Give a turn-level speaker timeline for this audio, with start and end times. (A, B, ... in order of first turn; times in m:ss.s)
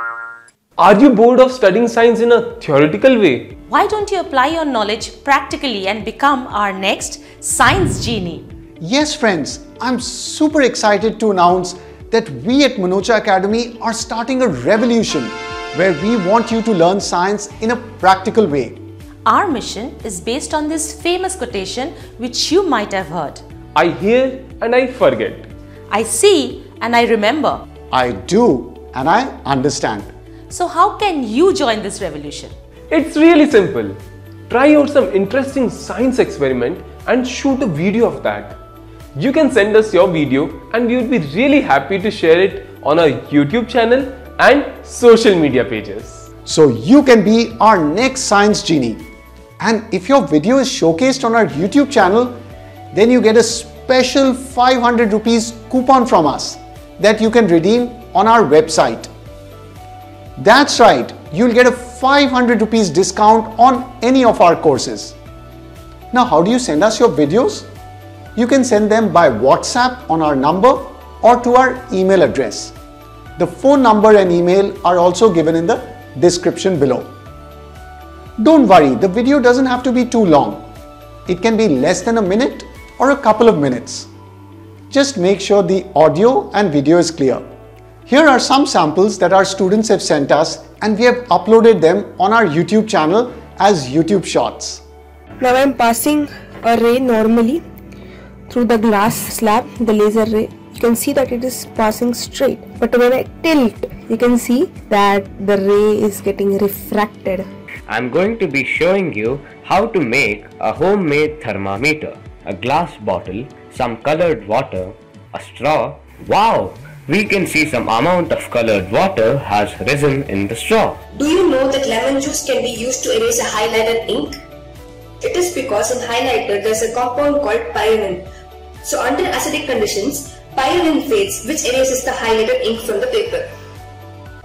0:00.8-0:03.5 A
0:03.7-0:08.4 B
0:08.8-0:18.8 C
0:19.2-0:23.4 B
0:23.7-0:25.5 A
0:25.9-0:27.6 B
0:27.9-0:30.1 C
0:30.5-0:32.5 B
0:32.9-0:34.0 A
0:34.5-0:38.6 A
0:39.2-0:46.2 A
0:46.4-0:49.0 C
0:49.6-0:52.4 C
0:52.9-0:59.1 C
1:00.4-1:05.2 C
1:06.1-1:07.7 C
1:08.4-1:12.7 C
1:13.4-1:17.1 C
1:18.4-1:20.6 C
1:21.3-1:24.1 C
1:24.9-1:27.4 C
1:28.0-1:34.8 C
1:35.4-1:37.6 D
1:38.5-1:47.5 D
1:47.9-2:01.0 E
2:01.2-2:04.4 F
2:05.2-2:08.3 F
2:08.8-2:13.5 F